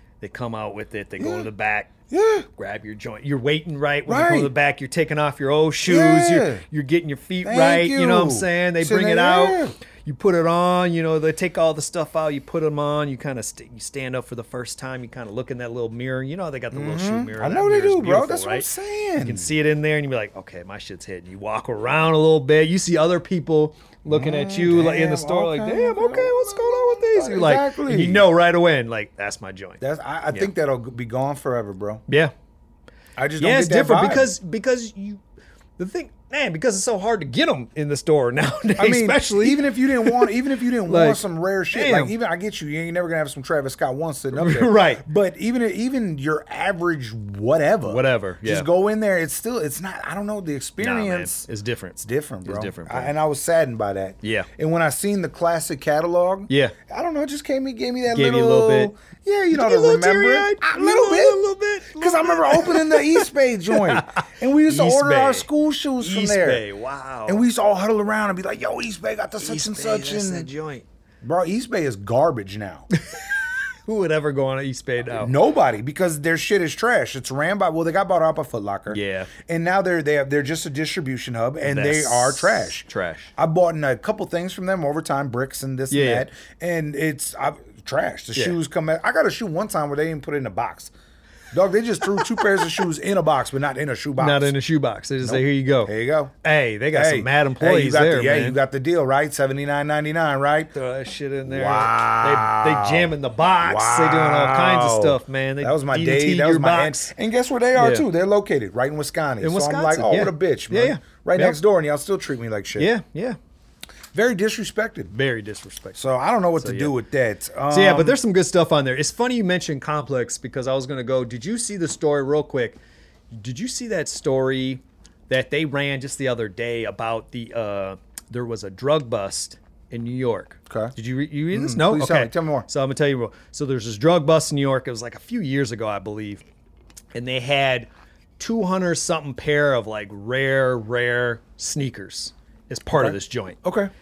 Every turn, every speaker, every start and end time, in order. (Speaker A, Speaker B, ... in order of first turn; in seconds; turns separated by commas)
Speaker A: 0.2-1.9, Speaker B: 1.2-1.5, Speaker B: 2.1-2.5, Speaker A: 2.6-29.8, Speaker B: 4.1-4.5, Speaker B: 5.8-6.6, Speaker B: 7.4-9.7, Speaker B: 16.7-19.5, Speaker B: 24.1-28.3, Speaker B: 29.8-32.0, Speaker A: 32.1-32.3, Speaker B: 33.2-34.3, Speaker A: 33.4-35.2, Speaker A: 35.8-42.1, Speaker B: 38.8-51.4, Speaker A: 44.3-45.0, Speaker A: 47.9-48.7, Speaker A: 50.8-53.1, Speaker B: 52.0-66.6, Speaker A: 54.2-54.5, Speaker A: 56.5-56.7, Speaker A: 58.1-58.9, Speaker A: 59.5-65.5, Speaker A: 66.0-67.4, Speaker B: 67.2-70.5, Speaker A: 69.4-70.8, Speaker B: 71.2-72.9, Speaker A: 72.9-75.3, Speaker B: 75.1-90.9, Speaker A: 78.9-79.3, Speaker A: 81.6-83.3, Speaker A: 85.9-86.2, Speaker B: 91.5-94.5, Speaker A: 92.0-92.8, Speaker A: 94.2-95.9, Speaker B: 95.2-96.3, Speaker A: 96.4-98.6, Speaker B: 96.9-100.7, Speaker A: 100.7-107.1, Speaker B: 101.5-103.1, Speaker B: 103.6-112.9, Speaker A: 107.8-108.0, Speaker A: 109.4-111.6, Speaker A: 112.8-113.4, Speaker B: 114.1-115.1, Speaker A: 115.1-116.0, Speaker B: 115.9-118.2, Speaker A: 116.6-116.9, Speaker A: 117.7-122.8, Speaker A: 123.3-136.4, Speaker B: 130.7-130.9, Speaker B: 131.5-132.7, Speaker A: 137.1-143.6, Speaker B: 142.9-143.9